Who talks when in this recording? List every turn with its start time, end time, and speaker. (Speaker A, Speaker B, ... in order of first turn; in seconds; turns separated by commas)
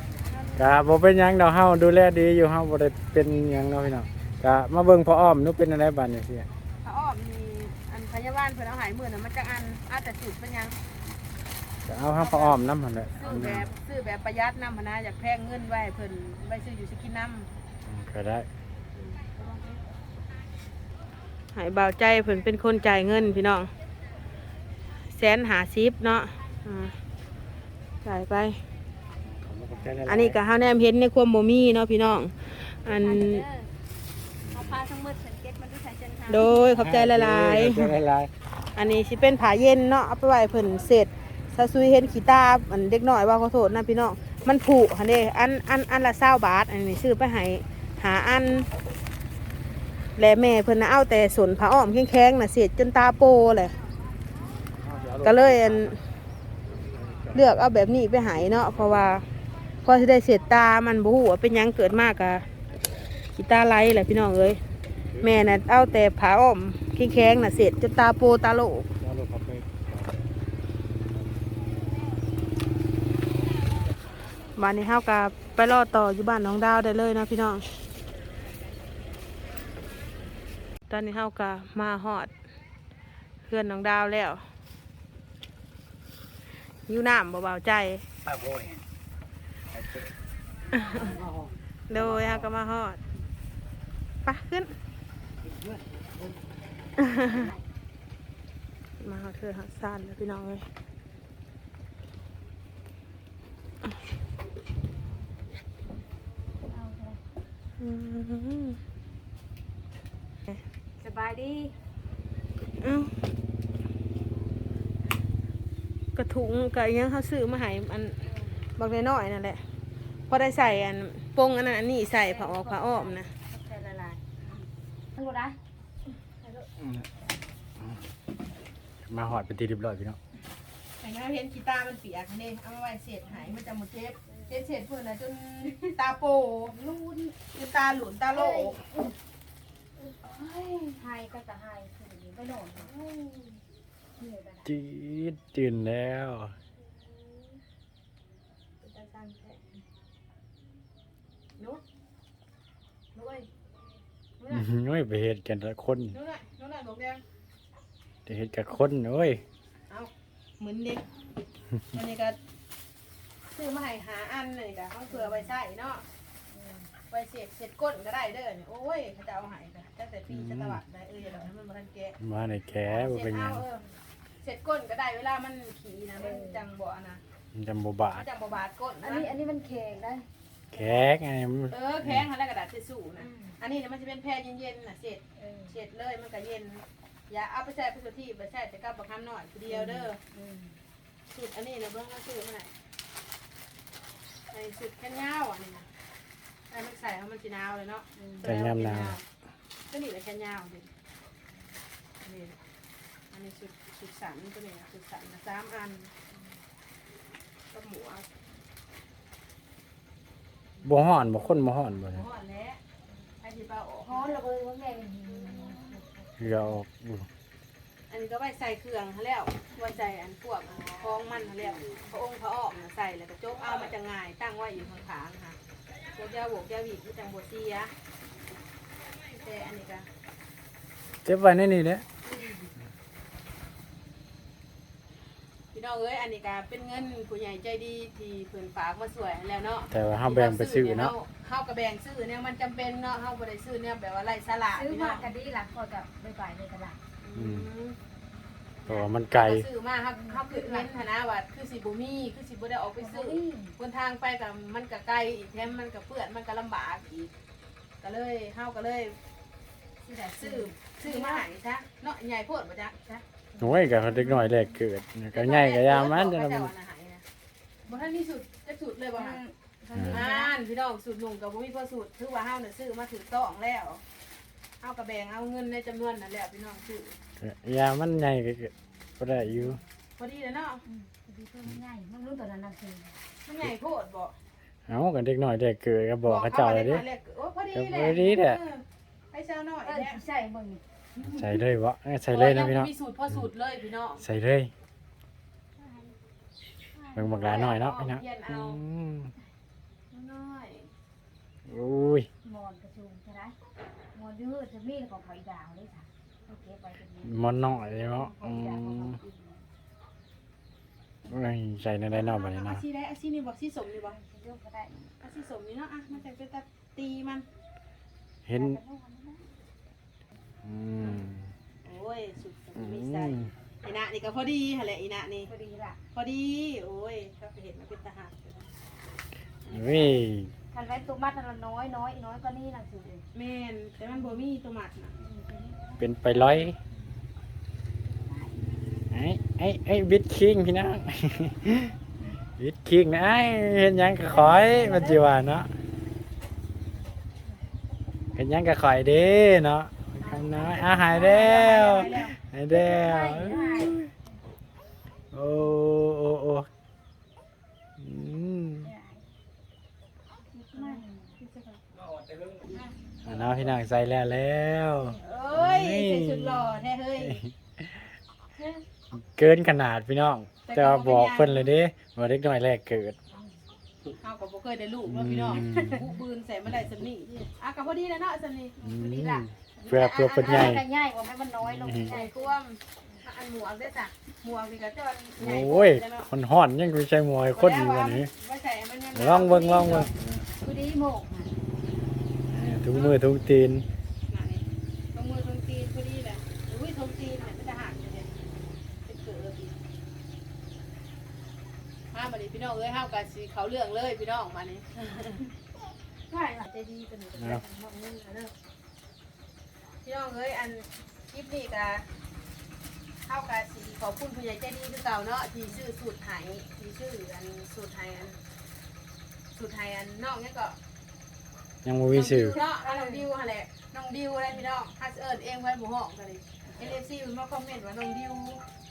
Speaker A: 0.3-0.8, Speaker B: 0.6-6.5, Speaker A: 6.8-10.8, Speaker B: 11.8-13.7, Speaker A: 12.1-17.5, Speaker B: 17.9-18.5, Speaker A: 19.0-19.7, Speaker A: 21.5-23.7, Speaker A: 25.1-26.9, Speaker A: 28.0-28.6, Speaker B: 29.3-30.4, Speaker A: 30.0-33.5, Speaker C: 32.9-33.7, Speaker B: 34.5-34.8, Speaker C: 34.5-36.7, Speaker A: 36.3-38.0, Speaker B: 36.7-38.3, Speaker A: 38.7-48.7, Speaker A: 50.2-53.7, Speaker B: 54.8-56.0, Speaker A: 55.2-56.0, Speaker B: 56.7-57.5, Speaker A: 57.3-59.2, Speaker A: 59.8-62.4, Speaker A: 63.3-64.6, Speaker A: 65.2-68.9, Speaker B: 69.0-70.2, Speaker A: 74.5-77.6, Speaker A: 80.9-82.3, Speaker A: 83.4-84.4, Speaker A: 86.9-88.0, Speaker A: 90.7-91.2, Speaker A: 91.9-93.0, Speaker A: 94.2-94.7, Speaker A: 97.0-97.5, Speaker A: 99.0-100.6, Speaker C: 106.7-107.2, Speaker A: 107.8-108.8, Speaker C: 111.0-111.7, Speaker A: 112.8-113.1, Speaker A: 116.2-119.6, Speaker A: 120.3-123.3, Speaker C: 122.2-124.6, Speaker C: 125.2-125.6, Speaker B: 126.8-127.0, Speaker B: 129.0-130.2, Speaker A: 131.0-136.7, Speaker C: 136.7-137.4, Speaker A: 137.5-138.8, Speaker C: 138.3-139.1, Speaker C: 140.1-142.9, Speaker A: 140.4-140.8, Speaker A: 142.8-143.6, Speaker C: 144.2-144.7, Speaker B: 144.6-146.5, Speaker A: 146.9-147.6, Speaker A: 148.8-149.6, Speaker A: 153.1-153.5, Speaker A: 154.4-154.7, Speaker B: 154.5-156.2, Speaker A: 156.1-157.2, Speaker B: 158.2-159.4, Speaker A: 159.9-161.0, Speaker A: 161.9-162.4, Speaker A: 163.5-166.0, Speaker C: 165.1-165.4, Speaker C: 166.5-166.9, Speaker A: 167.1-172.2, Speaker B: 170.3-170.8, Speaker B: 172.2-173.6, Speaker A: 172.9-173.8, Speaker A: 174.4-177.2, Speaker C: 176.2-176.6, Speaker B: 177.5-178.2, Speaker A: 178.1-179.3, Speaker C: 179.0-180.3, Speaker B: 180.7-182.2, Speaker A: 180.7-181.1, Speaker A: 181.7-190.2, Speaker C: 183.2-183.6, Speaker C: 185.4-185.7, Speaker C: 189.7-190.8, Speaker A: 191.3-192.7, Speaker A: 194.5-195.9, Speaker A: 196.7-199.2, Speaker C: 198.2-198.5, Speaker B: 198.4-199.2, Speaker A: 199.9-200.9, Speaker A: 202.2-202.6, Speaker A: 203.3-206.1, Speaker A: 207.7-208.3, Speaker B: 210.8-212.2, Speaker A: 211.4-212.8, Speaker A: 213.4-214.4, Speaker C: 214.0-216.8, Speaker B: 216.4-217.3, Speaker A: 218.1-225.6, Speaker A: 226.1-227.9, Speaker A: 229.4-230.1, Speaker B: 231.2-232.0, Speaker A: 235.7-245.3, Speaker B: 239.9-241.1, Speaker C: 244.7-247.0, Speaker A: 247.2-248.0, Speaker B: 247.3-247.7, Speaker B: 248.8-249.7, Speaker A: 248.8-257.3, Speaker C: 250.1-251.0, Speaker C: 253.0-253.7, Speaker A: 258.0-259.1, Speaker C: 260.0-261.4, Speaker A: 260.4-263.1, Speaker C: 263.1-264.6, Speaker B: 263.6-266.7, Speaker A: 265.3-267.2, Speaker A: 267.9-269.4, Speaker C: 269.1-270.5, Speaker B: 269.9-270.2, Speaker A: 270.0-274.0, Speaker A: 274.8-277.1, Speaker B: 277.4-279.8, Speaker A: 280.2-280.8, Speaker C: 280.8-283.2, Speaker A: 283.4-284.4, Speaker B: 284.9-287.0, Speaker A: 286.2-290.2, Speaker B: 287.7-288.6, Speaker C: 289.8-291.6, Speaker B: 291.2-292.9, Speaker A: 292.3-294.2, Speaker B: 294.2-294.7, Speaker C: 295.8-296.1, Speaker C: 296.9-297.5, Speaker B: 297.1-299.3, Speaker A: 297.4-298.8, Speaker A: 300.1-300.9, Speaker B: 301.7-302.3, Speaker C: 302.4-303.6, Speaker C: 304.1-309.6, Speaker B: 307.2-309.2, Speaker B: 311.3-312.8, Speaker A: 312.1-314.2, Speaker C: 314.1-315.0, Speaker A: 315.2-317.4, Speaker B: 318.4-318.8, Speaker C: 318.5-319.4, Speaker B: 320.6-321.5, Speaker A: 321.8-325.5, Speaker B: 322.8-323.5, Speaker C: 325.4-326.0, Speaker A: 326.1-328.7, Speaker A: 329.6-330.2, Speaker B: 329.7-330.5, Speaker C: 330.7-333.2, Speaker A: 333.3-335.1, Speaker C: 335.2-336.7, Speaker B: 336.0-336.8, Speaker C: 338.1-338.7, Speaker B: 339.1-341.9, Speaker B: 342.6-345.7, Speaker C: 344.3-345.2, Speaker B: 348.4-354.1, Speaker A: 350.2-352.4, Speaker C: 352.7-354.0, Speaker B: 355.3-356.7, Speaker B: 358.0-358.9, Speaker C: 358.8-359.2, Speaker C: 360.5-361.3, Speaker A: 360.7-361.8, Speaker B: 363.2-366.7, Speaker A: 365.2-367.4, Speaker B: 369.1-373.1, Speaker A: 370.6-371.7, Speaker A: 374.2-378.9, Speaker B: 375.1-376.1, Speaker C: 378.8-379.4, Speaker B: 378.8-380.8, Speaker A: 379.8-380.8, Speaker C: 380.3-382.5, Speaker B: 381.6-382.1, Speaker A: 381.9-386.3, Speaker B: 385.4-388.3, Speaker A: 387.5-390.1, Speaker B: 389.1-390.4, Speaker C: 390.6-391.6, Speaker B: 392.5-393.9, Speaker A: 392.9-393.2, Speaker A: 394.3-398.3, Speaker A: 399.0-399.8, Speaker A: 402.1-405.4, Speaker C: 406.3-406.6, Speaker A: 406.6-408.5, Speaker A: 410.0-412.1, Speaker A: 413.2-418.4, Speaker A: 419.5-420.8, Speaker B: 421.8-422.6, Speaker A: 422.1-428.6, Speaker C: 422.6-423.1